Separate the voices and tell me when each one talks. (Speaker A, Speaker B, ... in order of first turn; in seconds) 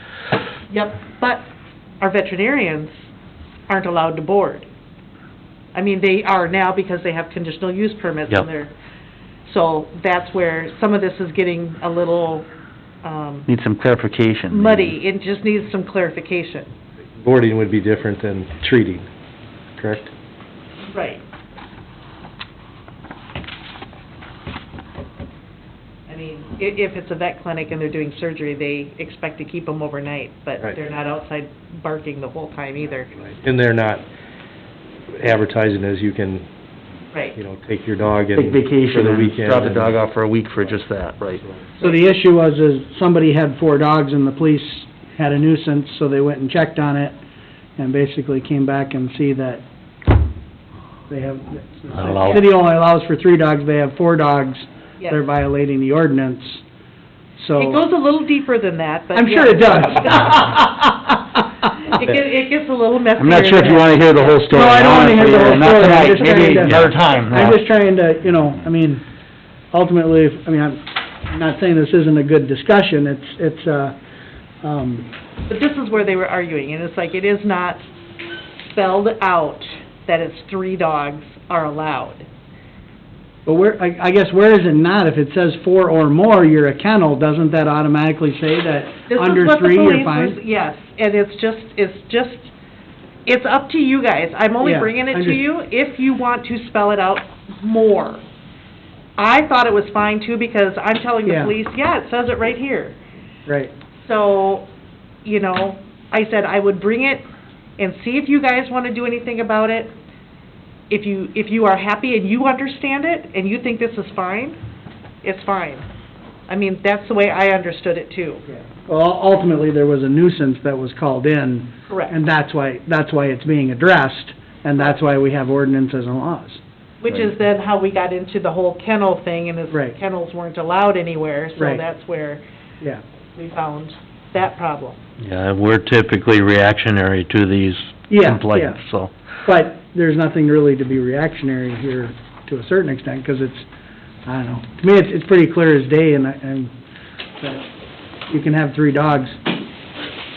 Speaker A: 0.7-1.4, 2.0-2.9, 3.7-4.7, 5.7-8.7, 9.4-12.5, 13.0-13.5, 14.5-16.7, 20.9-21.2, 26.1-33.1, 52.1-52.4, 57.5-60.6, 61.8-66.5, 75.5-77.8, 78.6-82.2, 89.1-92.5, 93.2-98.2, 99.2-103.0, 104.0-104.7, 105.2-107.2, 107.8-109.9, 110.9-114.6, 115.2-115.8, 116.5-118.4, 127.0-132.4, 133.3-135.0
Speaker B: 13.5-14.9, 38.3-41.4, 63.2-67.6
Speaker C: 17.2-19.1, 19.8-20.1, 33.2-34.0, 35.1-36.5, 37.4-40.0
Speaker D: 41.8-47.2, 47.8-49.6, 51.1-56.6, 57.4-57.8, 59.1-61.4, 64.5-69.0, 69.7-74.0, 74.6-75.1, 83.5-90.4, 94.6-95.4, 101.2-101.5, 103.5-103.7, 118.5-126.6, 131.6-131.8, 138.1-138.8, 139.4-143.7, 144.2-146.7, 147.4-147.7, 148.3-149.4
Speaker E: 51.9-52.4, 66.6-66.9, 135.2-139.1